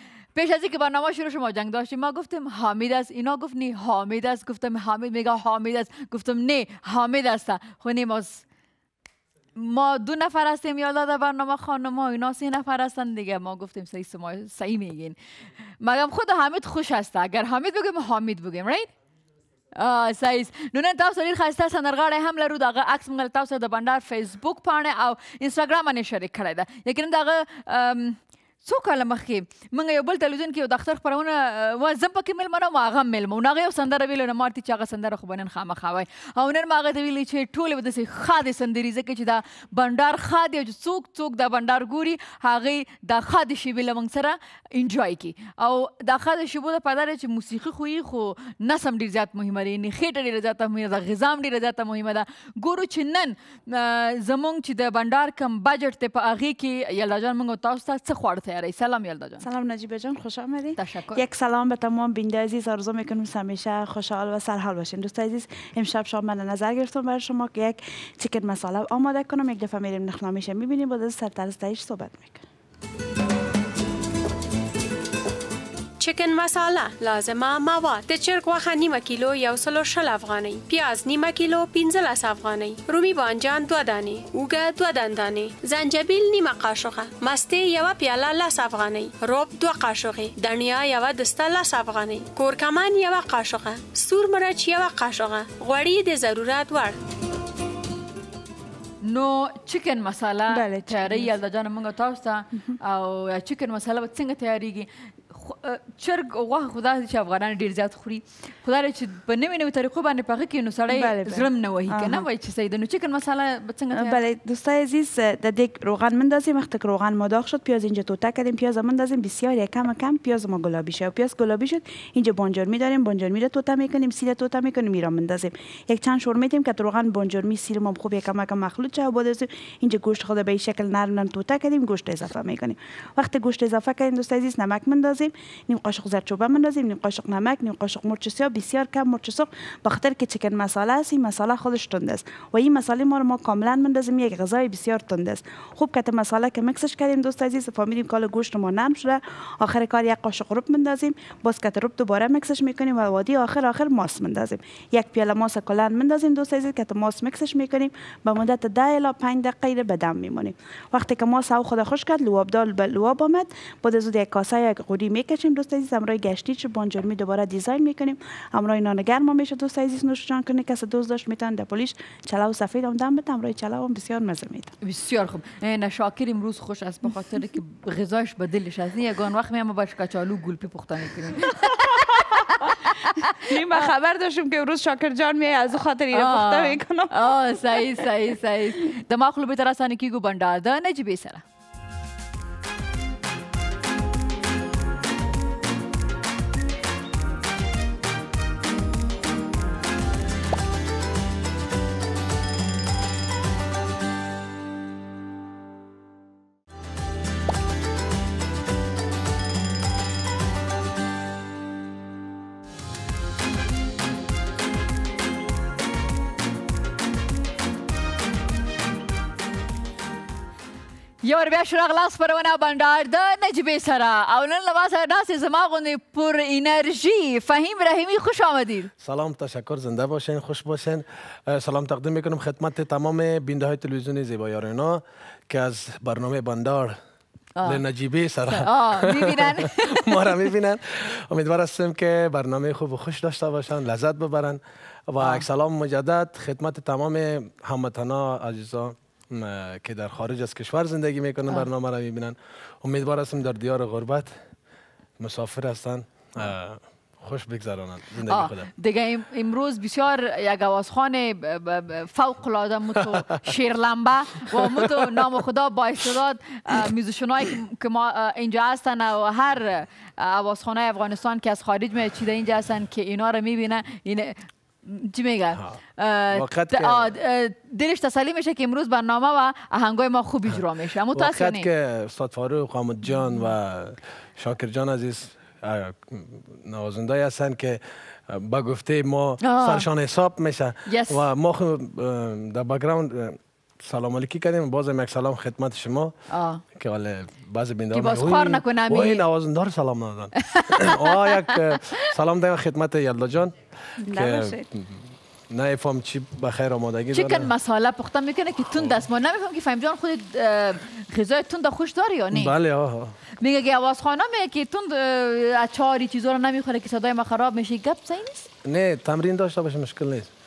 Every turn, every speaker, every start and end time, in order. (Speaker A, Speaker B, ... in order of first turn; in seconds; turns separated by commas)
Speaker A: 0.3-8.4, Speaker A: 9.5-15.2, Speaker A: 15.8-18.9, Speaker A: 19.7-59.4, Speaker B: 59.4-72.4, Speaker A: 60.8-61.2, Speaker C: 76.0-97.0, Speaker A: 99.0-114.2, Speaker B: 100.5-101.3, Speaker B: 110.9-112.2, Speaker B: 113.9-174.7, Speaker A: 174.8-183.9, Speaker B: 181.8-182.7, Speaker B: 183.2-187.1, Speaker A: 186.1-191.4, Speaker A: 221.2-228.9, Speaker D: 229.0-237.0, Speaker A: 237.6-237.8, Speaker D: 237.6-254.3, Speaker A: 238.5-240.5, Speaker A: 245.2-245.4, Speaker D: 255.2-258.7, Speaker A: 258.2-281.7, Speaker D: 263.0-263.3, Speaker D: 264.5-265.3, Speaker D: 276.3-277.1, Speaker D: 281.1-296.1, Speaker A: 289.4-289.9, Speaker A: 290.9-291.2, Speaker A: 296.3-296.6, Speaker D: 296.7-307.5, Speaker A: 297.9-299.2, Speaker A: 300.4-302.1, Speaker B: 304.0-304.7, Speaker A: 307.1-312.5, Speaker D: 308.7-309.0, Speaker D: 312.3-313.1, Speaker A: 313.4-318.5, Speaker D: 318.6-320.3